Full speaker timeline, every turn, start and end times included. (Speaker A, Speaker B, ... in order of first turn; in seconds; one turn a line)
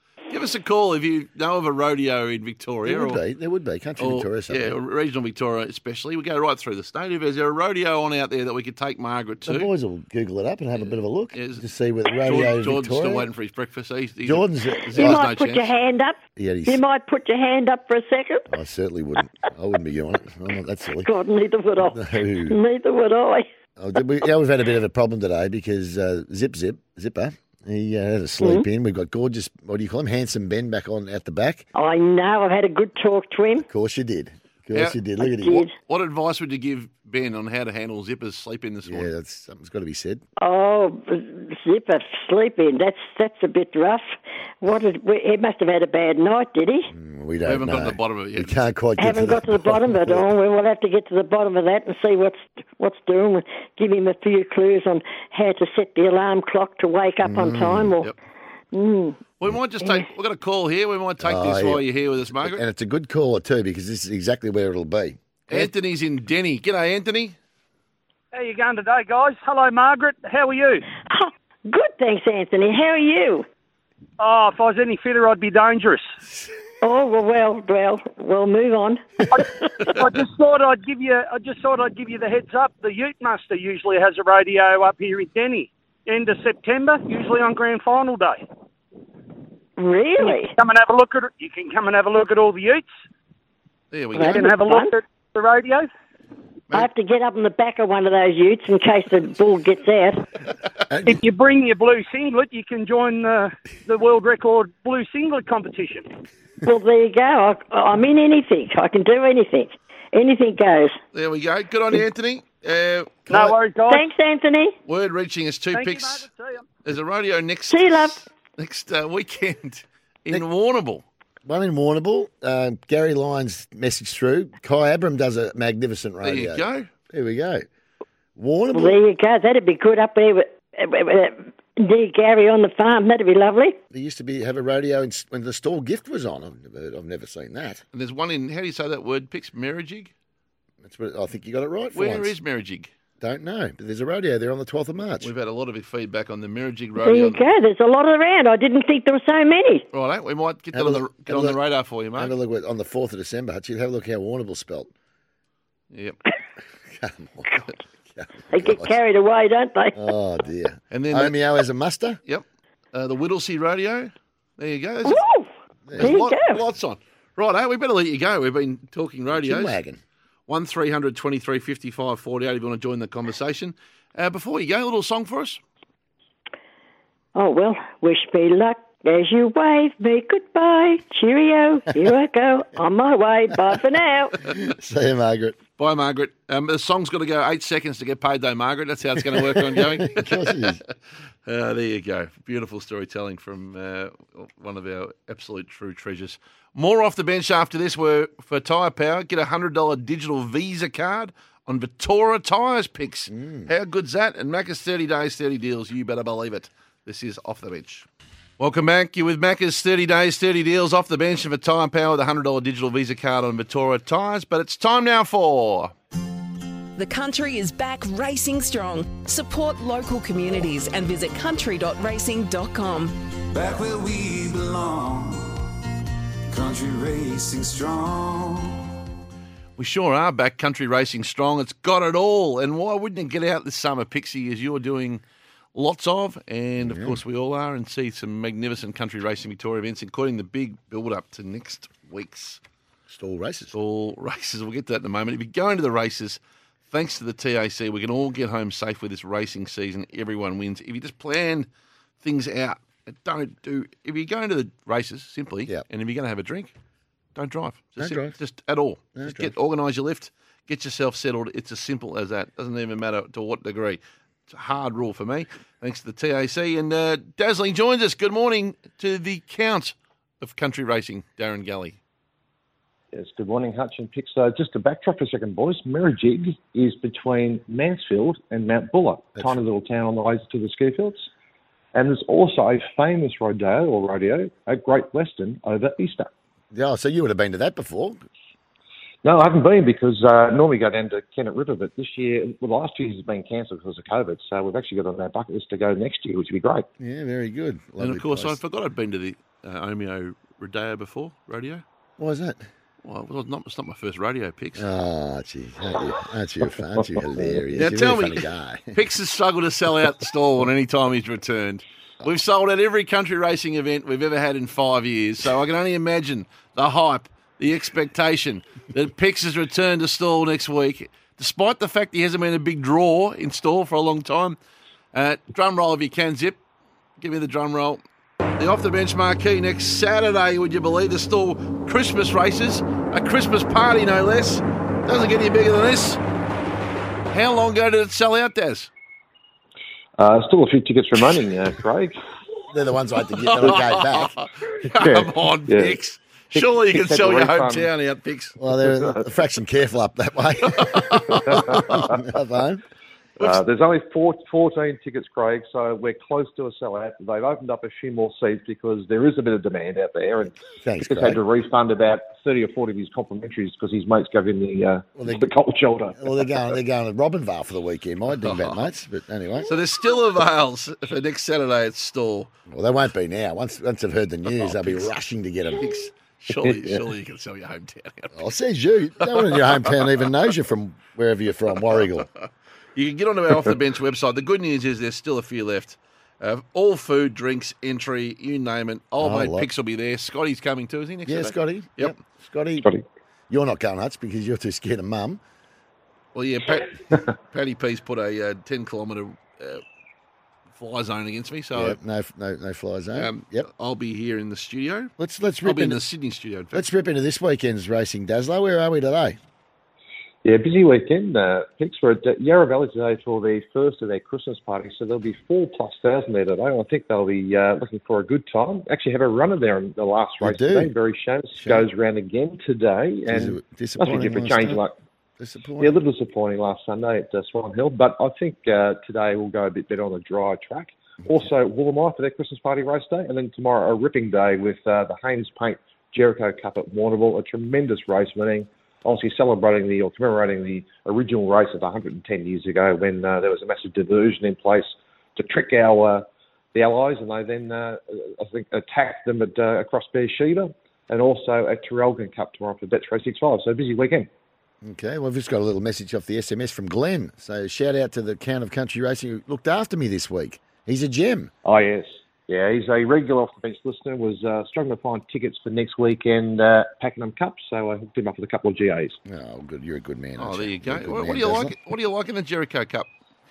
Speaker A: 0.3-3.2
Speaker B: 2.9-4.8
Speaker A: 4.0-9.7
Speaker B: 9.4-13.3
Speaker A: 10.8-11.6
Speaker A: 12.2-15.7
Speaker B: 14.2-15.2
Speaker C: 14.9-18.4
Speaker B: 16.4-16.8
Speaker B: 18.5-21.1
Speaker C: 21.0-23.4
Speaker B: 21.8-22.6
Speaker B: 23.8-31.6
Speaker C: 28.4-28.7
Speaker C: 31.8-33.6
Speaker B: 33.7-35.6
Speaker A: 34.7-35.0
Speaker C: 35.2-35.7
Speaker A: 35.8-39.1
Speaker B: 38.8-40.2
Speaker C: 40.4-46.9
Speaker B: 46.9-50.2
Speaker A: 47.4-48.6
Speaker C: 49.0-58.0
Speaker B: 57.2-57.9
Speaker C: 58.7-59.2
Speaker A: 59.4-62.6
Speaker B: 61.2-65.7
Speaker A: 65.5-67.3
Speaker D: 68.3-70.8
Speaker C: 71.1-73.5
Speaker D: 74.2-76.1
Speaker C: 76.8-79.0
Speaker D: 80.0-88.4
Speaker C: 89.8-90.5
Speaker D: 90.2-92.9
Speaker A: 93.9-94.5
Speaker C: 94.2-95.0
Speaker D: 94.4-95.9
Speaker C: 96.7-100.2
Speaker B: 100.9-101.2
Speaker D: 101.0-106.1
Speaker C: 106.6-111.0
Speaker A: 111.1-113.3
Speaker D: 113.3-114.0
Speaker C: 113.9-114.8
Speaker A: 114.8-116.3
Speaker D: 115.7-116.6
Speaker A: 116.8-121.0
Speaker C: 117.7-118.2
Speaker B: 121.4-127.6
Speaker A: 126.2-126.9
Speaker B: 128.3-129.0
Speaker C: 128.7-133.8
Speaker B: 133.9-137.8
Speaker A: 137.9-140.1
Speaker B: 140.8-142.3
Speaker A: 141.9-142.9
Speaker B: 143.2-145.3
Speaker A: 145.2-147.4
Speaker C: 147.0-149.8
Speaker A: 149.9-152.3
Speaker B: 150.7-151.6
Speaker B: 152.2-154.9
Speaker A: 155.9-156.2
Speaker B: 156.8-158.9
Speaker C: 158.5-160.0
Speaker B: 159.9-162.2
Speaker A: 160.9-161.4
Speaker A: 162.3-165.2
Speaker C: 165.0-165.5
Speaker B: 165.9-166.2
Speaker A: 166.0-169.8
Speaker C: 166.0-166.6
Speaker B: 169.3-170.0
Speaker A: 170.5-175.6
Speaker C: 177.3-184.3
Speaker B: 184.4-185.6
Speaker A: 185.8-190.8
Speaker B: 189.2-190.8
Speaker A: 191.4-208.1
Speaker B: 203.3-203.7
Speaker A: 208.6-215.9
Speaker E: 217.0-223.1
Speaker F: 223.5-225.7
Speaker F: 226.5-228.9
Speaker A: 229.8-235.2
Speaker A: 235.7-242.6
Speaker B: 236.8-237.2
Speaker B: 243.1-243.7
Speaker A: 243.7-251.7
Speaker A: 252.2-256.7
Speaker A: 257.3-272.0
Speaker B: 258.0-258.3
Speaker B: 259.1-259.5
Speaker G: 273.1-281.3
Speaker G: 281.9-286.3
Speaker B: 286.7-288.2
Speaker G: 289.2-296.9
Speaker B: 297.0-298.6
Speaker A: 298.0-301.8
Speaker B: 302.2-302.7
Speaker A: 303.0-304.9
Speaker B: 304.8-309.0
Speaker G: 307.3-307.7
Speaker A: 307.8-324.6
Speaker A: 325.1-326.6
Speaker A: 327.2-328.0
Speaker A: 328.6-336.2
Speaker A: 337.3-338.9
Speaker G: 340.2-342.1
Speaker B: 342.7-344.3
Speaker A: 343.4-348.6
Speaker G: 344.9-345.9
Speaker G: 346.5-347.9
Speaker B: 348.6-352.8
Speaker G: 348.9-349.2
Speaker A: 350.9-352.0
Speaker G: 351.5-352.2
Speaker G: 353.4-366.4
Speaker B: 360.7-361.4
Speaker B: 365.1-365.5
Speaker B: 366.1-369.7
Speaker A: 368.4-368.8
Speaker A: 369.7-372.5
Speaker B: 372.7-376.0
Speaker A: 374.5-375.1
Speaker A: 375.8-378.4
Speaker B: 376.6-377.0
Speaker B: 378.3-382.3
Speaker A: 379.2-380.0
Speaker A: 382.9-392.1
Speaker B: 389.2-389.7
Speaker B: 391.2-392.9
Speaker B: 393.5-395.4
Speaker A: 396.3-399.8
Speaker A: 400.7-402.0
Speaker B: 401.7-403.7
Speaker A: 403.1-405.1
Speaker B: 405.2-406.0
Speaker A: 405.6-406.9
Speaker B: 406.7-409.4
Speaker G: 410.4-424.9
Speaker B: 420.4-420.9
Speaker B: 421.6-421.9
Speaker B: 423.3-424.8
Speaker B: 425.4-426.0
Speaker G: 425.8-454.3
Speaker B: 454.8-461.5
Speaker G: 461.6-469.2
Speaker B: 469.2-471.8
Speaker A: 470.4-473.1